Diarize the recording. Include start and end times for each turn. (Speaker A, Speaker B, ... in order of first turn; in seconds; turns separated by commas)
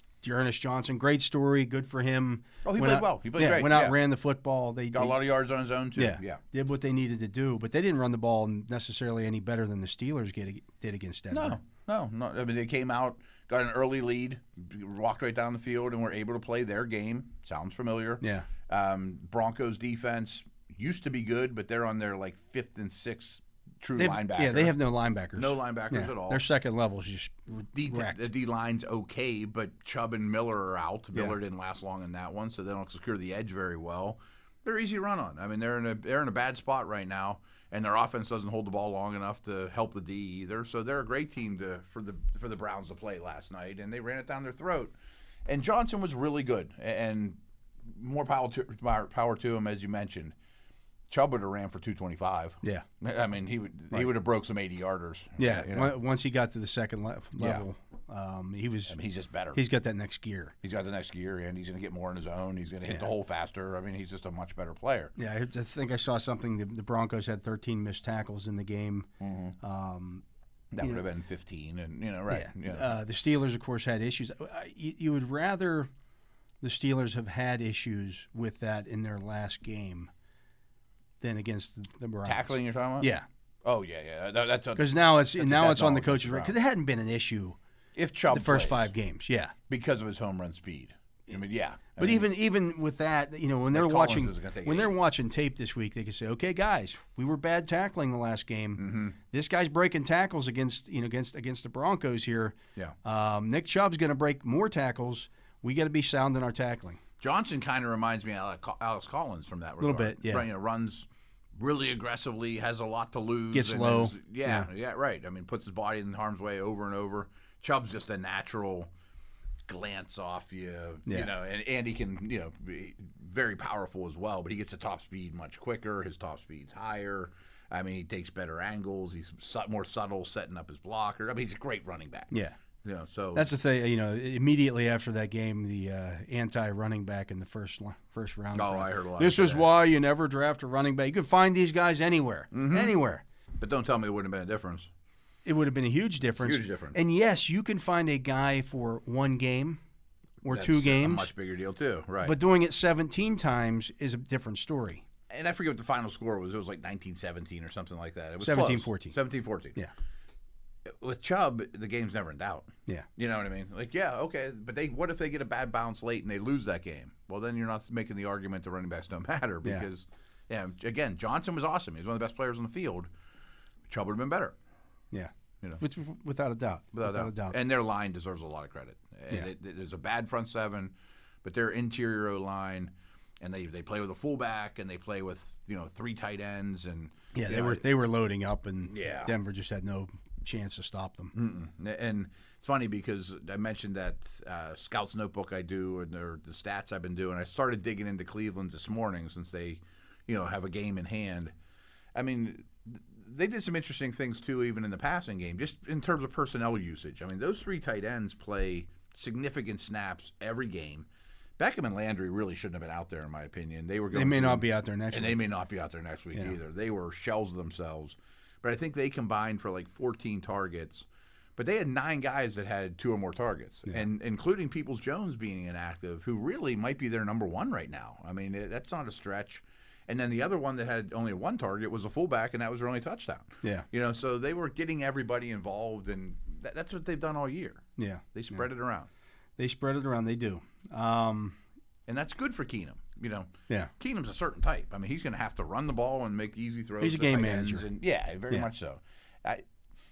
Speaker A: 0.2-5.2, Speaker B: 2.6-4.0, Speaker B: 4.9-6.4, Speaker A: 6.0-11.6, Speaker B: 11.3-24.8, Speaker A: 18.2-18.5, Speaker A: 24.0-28.2, Speaker B: 25.4-26.4, Speaker B: 27.8-44.9, Speaker B: 45.5-50.4, Speaker B: 51.1-55.9, Speaker A: 55.4-59.0, Speaker B: 57.4-57.6, Speaker B: 58.9-59.6, Speaker A: 59.5-60.5, Speaker B: 60.6-65.1, Speaker A: 65.2-69.1, Speaker B: 69.2-69.6, Speaker A: 69.6-70.2, Speaker B: 70.7-72.9, Speaker A: 70.8-71.0, Speaker A: 72.3-75.9, Speaker A: 76.6-80.1, Speaker A: 81.2-83.3, Speaker B: 82.2-83.1, Speaker B: 83.6-86.5, Speaker A: 84.8-87.6, Speaker B: 88.0-88.9, Speaker A: 88.3-89.5, Speaker B: 89.7-92.3, Speaker A: 92.0-107.0, Speaker B: 93.7-95.0, Speaker B: 98.8-99.2, Speaker B: 107.2-118.9, Speaker A: 109.8-110.5, Speaker A: 113.5-114.7, Speaker B: 119.7-132.3, Speaker A: 132.3-132.6, Speaker B: 132.8-133.5, Speaker A: 133.3-143.2, Speaker B: 138.5-139.7, Speaker B: 142.5-143.0, Speaker B: 143.6-144.9, Speaker A: 145.4-149.8, Speaker B: 146.4-147.0, Speaker A: 150.4-151.3, Speaker B: 150.5-152.4, Speaker A: 152.2-155.0, Speaker B: 155.3-159.8, Speaker A: 158.4-159.2, Speaker B: 160.9-173.1, Speaker B: 173.9-174.6, Speaker A: 175.1-177.6, Speaker B: 176.9-187.8, Speaker A: 187.3-191.3, Speaker B: 188.9-189.3, Speaker B: 191.3-201.5, Speaker B: 202.2-211.1, Speaker B: 211.6-239.1, Speaker A: 214.1-215.4, Speaker A: 238.0-238.6, Speaker A: 239.6-241.6, Speaker B: 242.1-249.6, Speaker A: 247.0-247.9